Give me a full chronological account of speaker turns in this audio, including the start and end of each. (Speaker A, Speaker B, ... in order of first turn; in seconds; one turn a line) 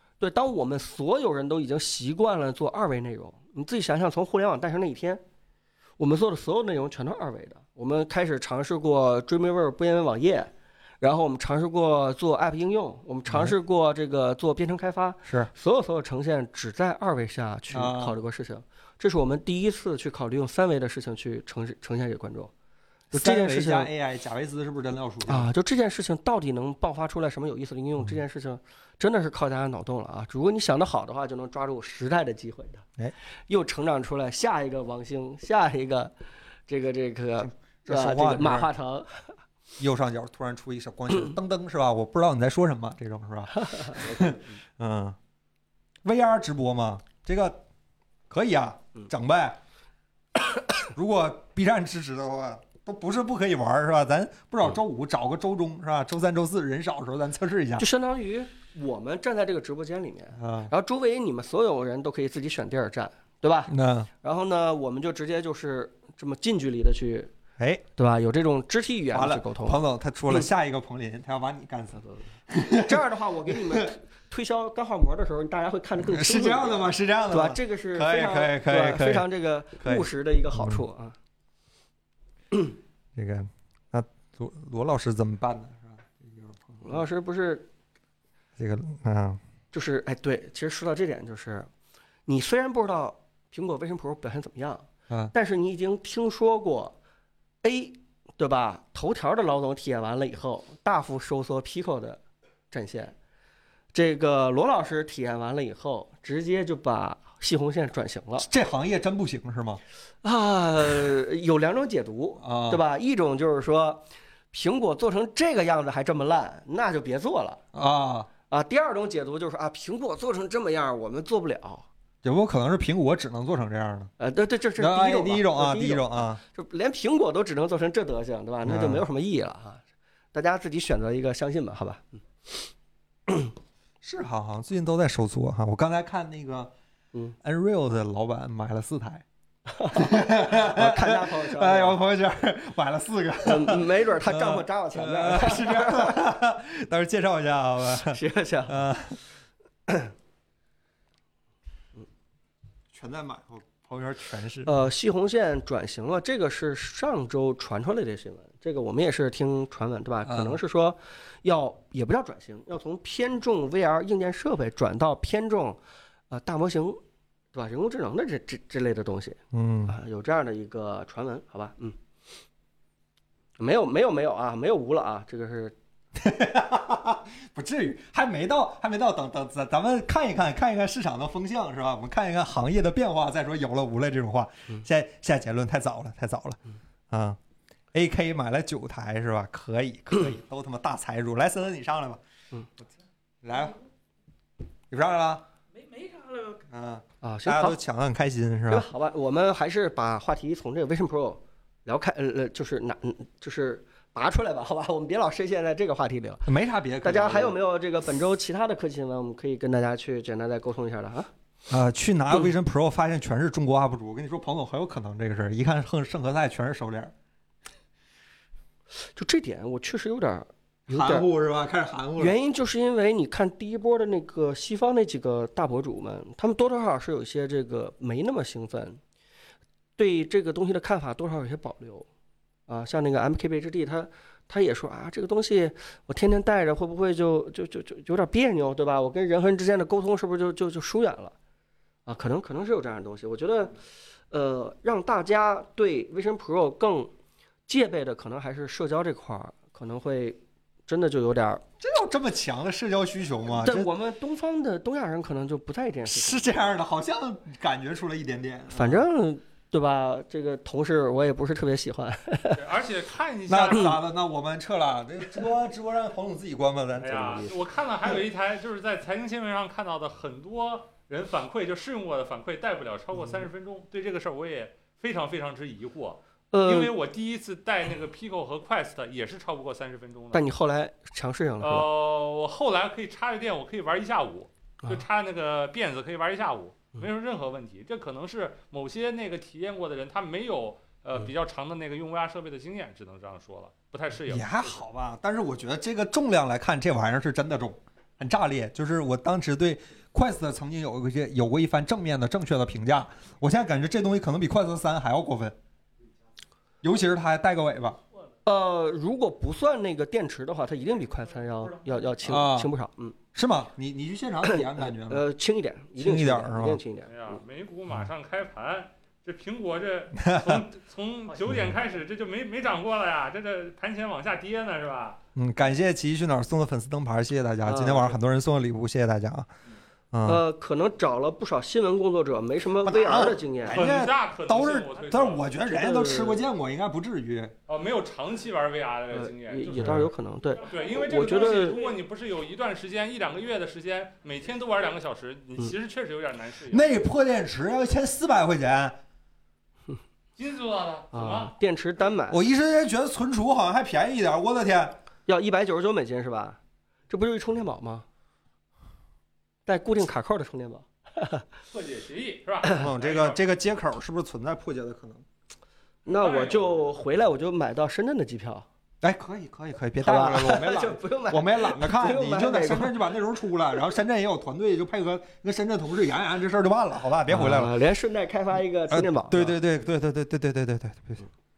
Speaker A: 0.2-5.2
Speaker A: 6.0-22.5
Speaker B: 17.7-18.1
Speaker A: 23.1-23.9
Speaker B: 23.1-25.5
Speaker A: 25.2-32.8
Speaker A: 33.5-36.1
Speaker A: 36.7-39.3
Speaker B: 37.4-38.7
Speaker B: 39.8-45.2
Speaker A: 43.7-44.5
Speaker B: 46.0-47.6
Speaker B: 48.3-49.6
Speaker B: 50.8-57.9
Speaker A: 57.8-67.3
Speaker B: 60.4-60.7
Speaker B: 63.7-64.1
Speaker B: 67.6-67.8
Speaker A: 68.0-70.5
Speaker B: 69.1-73.0
Speaker A: 72.8-81.2
Speaker B: 76.0-79.2
Speaker B: 79.8-80.8
Speaker B: 83.2-87.0
Speaker A: 86.8-87.7
Speaker B: 88.6-89.4
Speaker A: 89.7-91.7
Speaker A: 92.2-97.0
Speaker A: 97.6-102.2
Speaker A: 102.7-103.2
Speaker A: 103.9-108.5
Speaker B: 108.4-109.8
Speaker A: 110.2-117.6
Speaker B: 112.4-112.8
Speaker B: 117.7-118.3
Speaker A: 118.5-121.9
Speaker B: 122.2-124.1
Speaker A: 124.2-129.8
Speaker B: 124.8-126.4
Speaker B: 128.6-129.0
Speaker A: 130.3-132.6
Speaker B: 134.0-136.7
Speaker B: 137.4-139.2
Speaker A: 139.7-142.0
Speaker B: 139.9-149.2
Speaker A: 143.4-146.2
Speaker A: 147.9-148.8
Speaker B: 152.9-154.7
Speaker A: 154.7-167.0
Speaker B: 160.2-160.6
Speaker A: 167.5-172.0
Speaker B: 169.5-169.9
Speaker A: 173.6-175.8
Speaker B: 176.2-186.6
Speaker B: 187.1-187.4
Speaker B: 187.9-192.2
Speaker B: 193.4-193.7
Speaker B: 194.9-195.4
Speaker C: 195.7-196.6
Speaker B: 196.7-198.8
Speaker A: 197.2-197.8
Speaker A: 198.7-206.5
Speaker B: 206.4-207.5
Speaker A: 207.0-211.3
Speaker B: 211.7-217.1
Speaker A: 219.0-221.3
Speaker B: 220.9-222.3
Speaker A: 222.2-229.0
Speaker A: 230.0-232.1
Speaker A: 232.7-241.3
Speaker A: 242.1-243.8
Speaker A: 244.3-247.1
Speaker A: 247.7-251.6
Speaker B: 251.8-253.9
Speaker A: 253.4-256.7
Speaker B: 256.1-259.0
Speaker A: 258.7-262.6
Speaker D: 262.5-264.0
Speaker B: 263.5-267.5
Speaker D: 267.0-280.5
Speaker A: 267.3-267.5
Speaker A: 276.5-276.9
Speaker A: 280.3-281.9
Speaker D: 281.6-294.8
Speaker B: 294.3-305.6
Speaker B: 306.8-308.0
Speaker A: 308.4-313.2
Speaker C: 311.6-311.9
Speaker B: 312.2-312.7
Speaker B: 313.3-315.2
Speaker A: 314.5-317.4
Speaker B: 316.0-316.8
Speaker D: 317.0-325.2
Speaker B: 320.2-320.6
Speaker C: 321.3-321.5
Speaker B: 325.4-329.5
Speaker A: 327.6-328.2
Speaker B: 330.1-330.4
Speaker A: 330.2-333.8
Speaker B: 332.8-337.5
Speaker D: 333.6-335.5
Speaker A: 335.7-336.4
Speaker D: 337.7-340.1
Speaker A: 339.1-341.8
Speaker B: 339.8-340.0
Speaker D: 340.6-346.9
Speaker C: 341.6-341.9
Speaker B: 346.7-349.0
Speaker D: 350.4-351.5
Speaker A: 351.1-352.4
Speaker B: 352.3-354.9
Speaker A: 355.3-358.1
Speaker A: 359.6-361.4
Speaker D: 361.7-363.4
Speaker B: 362.7-365.2
Speaker A: 366.0-368.7
Speaker D: 366.1-366.8
Speaker B: 369.0-377.7
Speaker A: 370.0-373.0
Speaker A: 377.3-379.6
Speaker B: 378.9-381.2